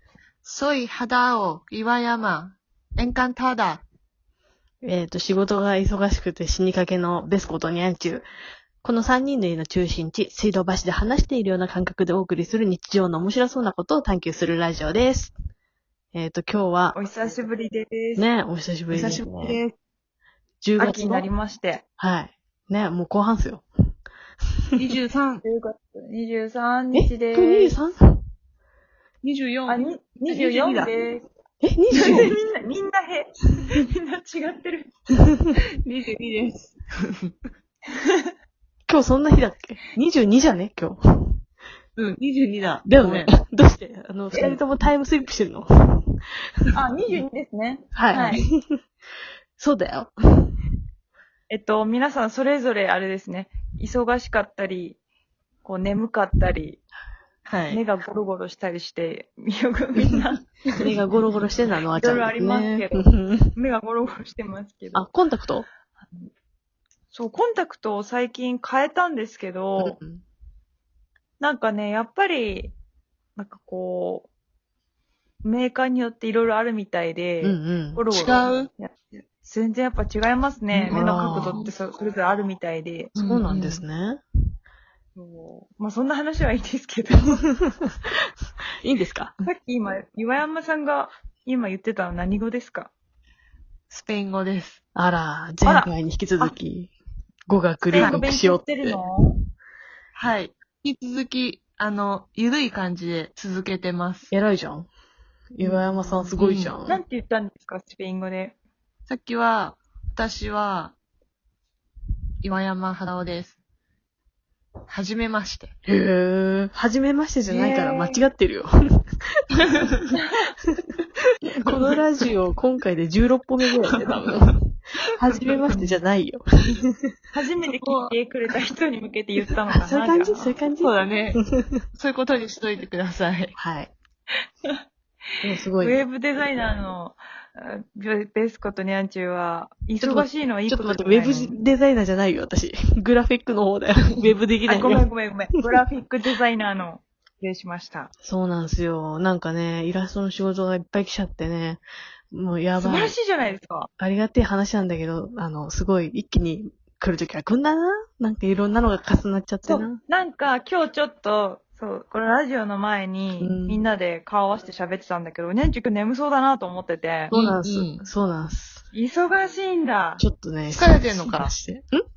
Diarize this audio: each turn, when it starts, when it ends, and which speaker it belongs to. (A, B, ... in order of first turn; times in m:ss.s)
0:00.4-0:03.8 A
0:04.8-0:08.3 B
0:08.8-0:15.3 B
0:16.1-0:17.0 B
0:16.9-0:18.3 C
0:18.2-0:19.6 B
0:18.9-0:19.7 A
0:20.6-0:21.3 B
0:20.8-0:21.8 C
0:22.0-0:23.6 B
0:24.8-0:25.4 A
0:25.4-0:27.8 C
0:26.9-0:28.2 B
0:29.2-0:30.9 A
0:29.7-0:31.2 C
0:31.6-0:32.4 B
0:31.9-0:34.9 C
0:32.0-0:32.3 A
0:35.5-0:37.3 A
0:37.9-0:38.3 C
0:38.9-0:41.4 B
0:42.0-0:43.3 A
0:42.8-0:46.2 B
0:44.3-0:44.6 C
0:46.7-0:48.5 C
0:47.9-0:48.7 B
0:49.6-0:50.5 B
0:51.5-0:55.0 C
0:55.6-0:56.8 C
0:57.4-0:57.8 A
0:57.7-1:00.5 C
1:00.8-1:03.5 B
1:01.9-1:05.1 C
1:04.9-1:05.7 B
1:07.1-1:10.0 C
1:09.8-1:10.2 B
1:11.4-1:12.7 C
1:13.4-1:14.3 C
1:15.4-1:23.1 C
1:17.4-1:18.0 B
1:18.1-1:18.7 A
1:20.7-1:21.7 A
1:20.9-1:21.6 B
1:23.1-1:23.8 A
1:23.2-1:24.2 B
1:25.2-1:27.4 C
1:28.8-1:29.3 B
1:29.4-1:32.9 C
1:33.9-1:34.8 A
1:34.9-1:36.9 B
1:35.6-1:36.6 C
1:37.5-1:39.0 B
1:37.9-1:39.3 C
1:38.0-1:38.2 A
1:40.1-1:44.3 A
1:44.3-1:44.9 B
1:45.5-1:47.0 B
1:45.6-1:45.8 C
1:46.0-1:46.7 A
1:46.9-1:48.6 C
1:49.1-1:50.9 A
1:52.4-1:53.6 A
1:54.9-1:55.7 A
1:55.8-1:59.1 B
1:57.5-1:58.2 C
2:01.4-2:01.8 A
2:01.6-2:04.6 B
2:03.9-2:04.5 A
2:05.1-2:07.1 B
2:05.7-2:06.0 C
2:07.3-2:10.6 C
2:07.8-2:08.1 A
2:09.8-2:11.8 B
2:10.8-2:11.4 A
2:11.9-2:13.6 A
2:13.6-2:13.9 B
2:15.4-2:16.0 B
2:15.8-2:21.6 C
2:20.0-2:25.0 B
2:24.7-2:28.1 C
2:28.2-2:33.2 B
2:32.8-2:33.9 C
2:34.0-2:40.0 B
2:39.7-2:47.3 C
2:43.4-2:43.8 B
2:47.3-2:48.0 A
2:47.3-2:48.8 B
2:48.9-2:50.2 C
2:50.2-2:52.0 B
2:50.7-2:51.5 A